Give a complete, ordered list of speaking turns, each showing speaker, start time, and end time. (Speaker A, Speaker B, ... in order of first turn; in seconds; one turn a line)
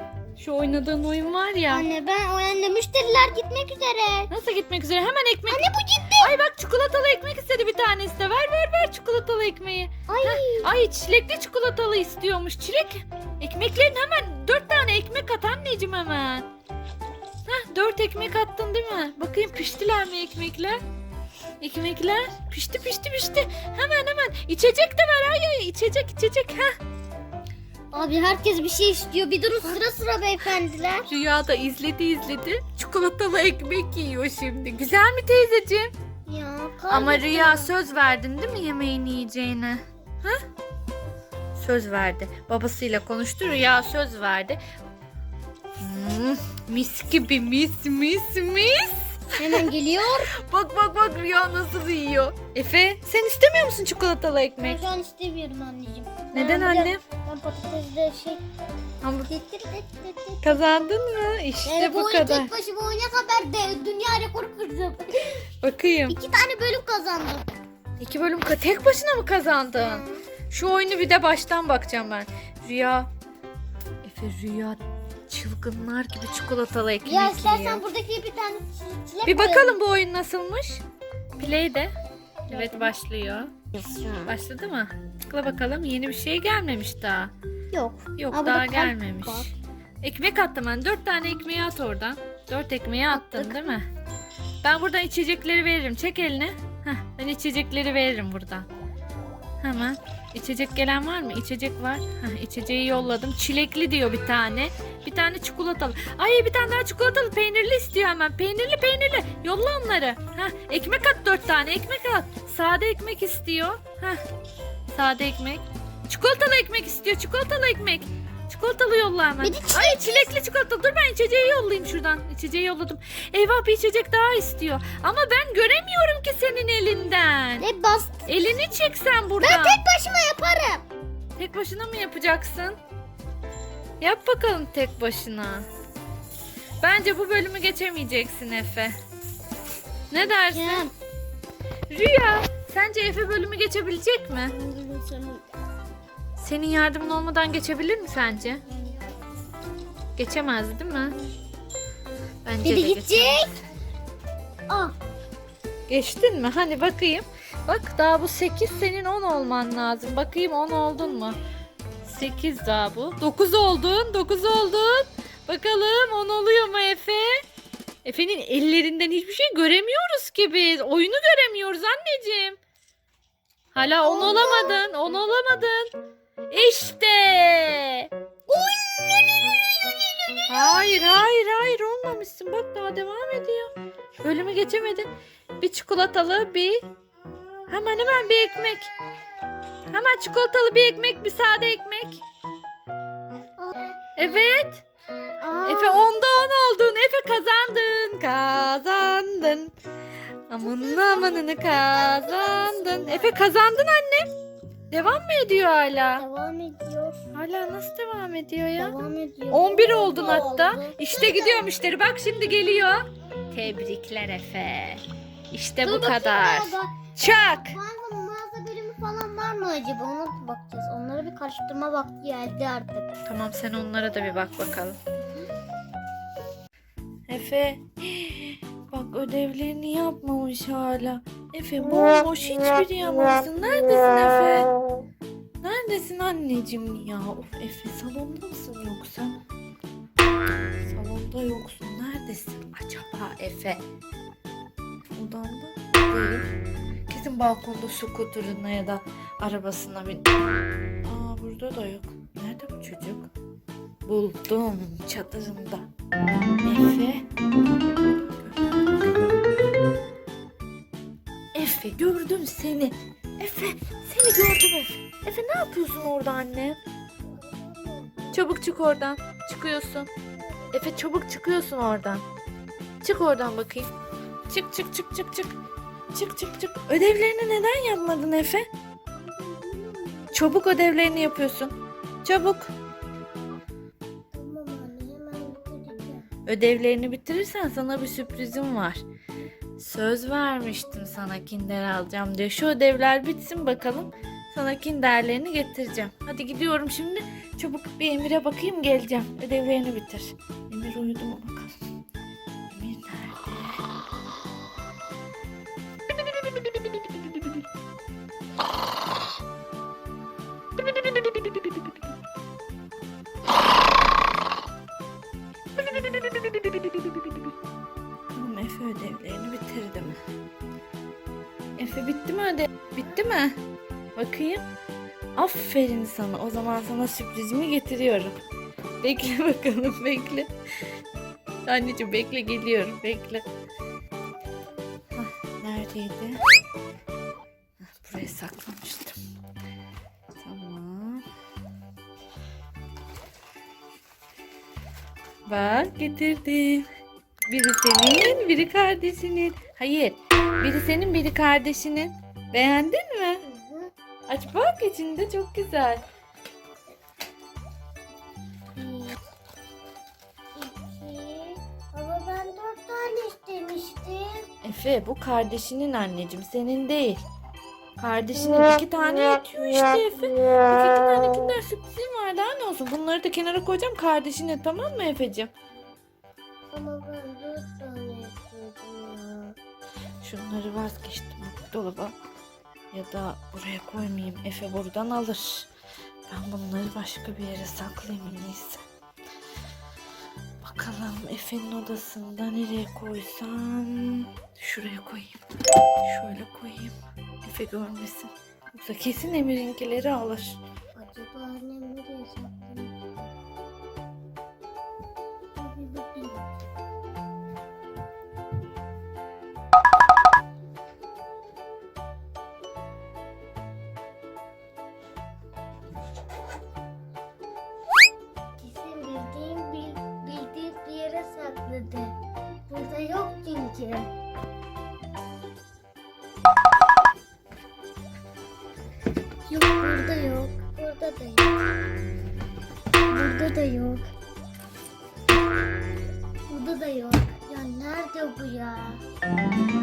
Speaker A: 0.4-1.9
Speaker B: 1.7-4.3
Speaker A: 4.3-5.7
Speaker B: 5.5-6.3
Speaker A: 6.2-16.5
Speaker B: 10.1-10.7
Speaker A: 17.5-20.8
Speaker A: 21.6-26.7
Speaker B: 27.9-31.1
Speaker A: 31.1-35.9
Speaker B: 36.3-37.7
Speaker A: 36.9-40.4
Speaker A: 41.5-44.6
Speaker A: 45.8-49.7
Speaker B: 49.4-50.3
Speaker A: 50.3-54.8
Speaker B: 54.6-58.4
Speaker A: 56.3-57.0
Speaker A: 59.0-59.3
Speaker B: 59.3-60.7
Speaker A: 60.4-62.5
Speaker B: 61.6-65.4
Speaker A: 65.6-66.2
Speaker B: 66.1-67.5
Speaker A: 68.0-73.1
Speaker A: 74.0-77.8
Speaker B: 77.0-79.8
Speaker A: 79.2-80.8
Speaker A: 81.4-81.9
Speaker B: 82.5-82.9
Speaker A: 82.5-83.5
Speaker B: 83.8-84.3
Speaker A: 84.2-87.3
Speaker B: 87.7-89.5
Speaker A: 88.2-93.9
Speaker B: 93.1-93.8
Speaker A: 94.6-98.7
Speaker A: 99.6-114.2
Speaker A: 114.9-127.7
Speaker B: 119.4-120.2
Speaker B: 127.6-128.3
Speaker A: 128.3-129.8
Speaker B: 129.4-130.8
Speaker A: 131.4-132.8
Speaker A: 134.0-135.7
Speaker A: 136.8-138.9
Speaker A: 140.1-140.9
Speaker B: 140.5-140.9
Speaker A: 141.9-144.5
Speaker B: 144.5-145.5
Speaker A: 146.4-148.6
Speaker A: 150.2-151.2
Speaker A: 152.4-153.5
Speaker B: 152.6-153.5
Speaker B: 154.7-154.9
Speaker A: 155.9-161.4
Speaker A: 162.0-167.4
Speaker A: 168.0-172.6
Speaker A: 173.8-175.9
Speaker B: 174.0-174.8
Speaker A: 176.5-178.1
Speaker A: 180.5-186.8
Speaker A: 187.7-188.9
Speaker A: 189.9-192.2
Speaker B: 193.6-194.0
Speaker A: 194.2-194.8
Speaker B: 195.4-196.1
Speaker A: 195.6-199.7
Speaker A: 200.5-204.3
Speaker B: 200.6-203.4
Speaker A: 204.9-206.2
Speaker B: 206.2-207.2
Speaker A: 207.3-208.9
Speaker B: 208.8-211.7
Speaker A: 209.5-217.8
Speaker B: 215.8-223.1
Speaker A: 223.2-225.0
Speaker A: 227.3-234.7
Speaker A: 235.6-239.4
Speaker A: 240.8-243.8
Speaker A: 245.2-246.5
Speaker A: 247.1-250.3
Speaker A: 251.0-253.3
Speaker A: 254.0-255.8
Speaker A: 256.6-257.3
Speaker A: 258.1-258.9
Speaker A: 261.5-266.8
Speaker B: 267.3-268.4
Speaker A: 268.3-270.1
Speaker B: 270.4-270.8
Speaker A: 270.7-272.2
Speaker A: 273.0-273.9
Speaker A: 274.5-275.5
Speaker A: 276.1-278.7
Speaker B: 279.1-280.5
Speaker A: 280.3-282.7
Speaker B: 284.3-286.3
Speaker A: 286.4-289.0
Speaker A: 289.8-301.8
Speaker A: 302.7-303.8
Speaker A: 315.8-317.5
Speaker A: 318.3-320.2
Speaker A: 321.8-323.6
Speaker A: 324.1-324.6
Speaker A: 325.4-328.3
Speaker A: 329.0-330.5
Speaker A: 331.6-333.4
Speaker A: 335.1-336.4
Speaker A: 337.8-339.2
Speaker A: 340.4-341.2
Speaker A: 345.5-346.9
Speaker A: 347.5-353.4
Speaker B: 353.4-353.9
Speaker A: 354.3-356.0
Speaker B: 358.8-359.2
Speaker B: 360.6-364.5
Speaker A: 364.6-367.2
Speaker A: 368.0-375.5
Speaker B: 376.7-379.6
Speaker A: 380.2-382.1
Speaker A: 382.9-385.7
Speaker A: 386.3-388.8
Speaker A: 390.6-395.4
Speaker A: 396.1-400.6
Speaker B: 400.9-403.3
Speaker B: 405.6-406.5
Speaker B: 418.6-422.1
Speaker B: 422.7-424.1
Speaker B: 429.4-431.6
Speaker B: 433.1-434.1
Speaker B: 436.5-439.0